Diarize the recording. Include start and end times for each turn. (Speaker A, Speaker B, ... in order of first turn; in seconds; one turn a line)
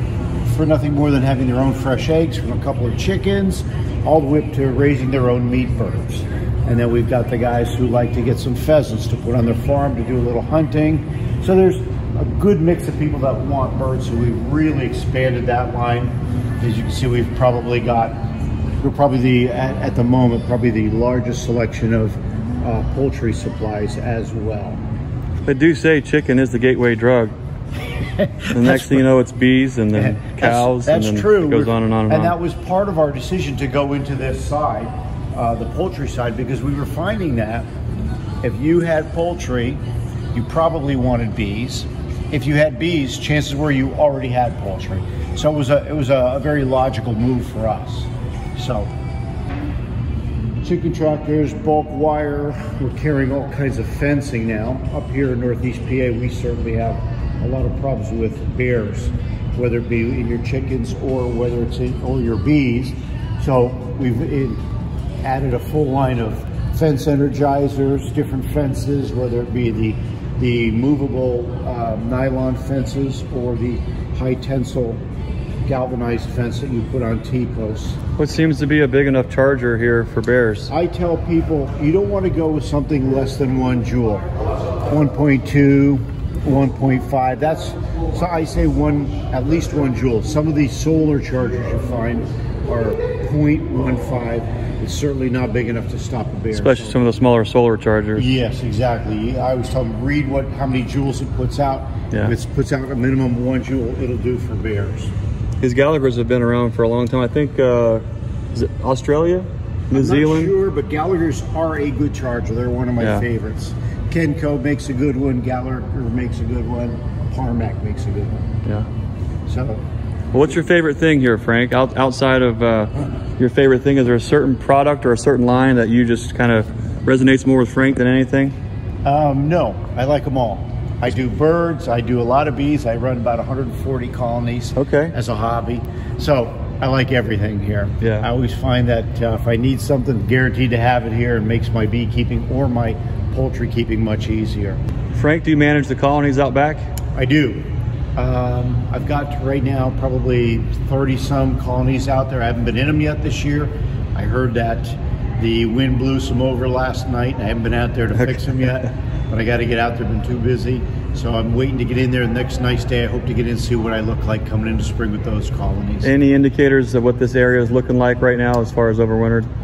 Speaker A: 0.4-18.2
Speaker A: 18.8-24.8
Speaker B: 25.4-27.3
Speaker A: 28.2-29.0
Speaker B: 28.5-32.3
Speaker A: 29.9-37.7
Speaker A: 38.4-39.8
Speaker A: 40.3-48.9
Speaker A: 50.6-64.6
Speaker A: 65.2-75.0
Speaker A: 75.7-78.0
Speaker B: 78.2-80.7
Speaker A: 80.7-84.2
Speaker A: 84.9-97.0
Speaker B: 96.5-98.2
Speaker A: 98.2-105.1
Speaker B: 105.6-110.5
Speaker A: 109.9-118.4
Speaker B: 113.0-113.2
Speaker A: 119.5-119.8
Speaker B: 120.3-128.6
Speaker A: 129.0-144.8
Speaker B: 134.8-135.1
Speaker B: 138.0-138.3
Speaker B: 145.1-146.9
Speaker A: 147.1-166.1
Speaker B: 158.2-158.7
Speaker B: 166.0-169.5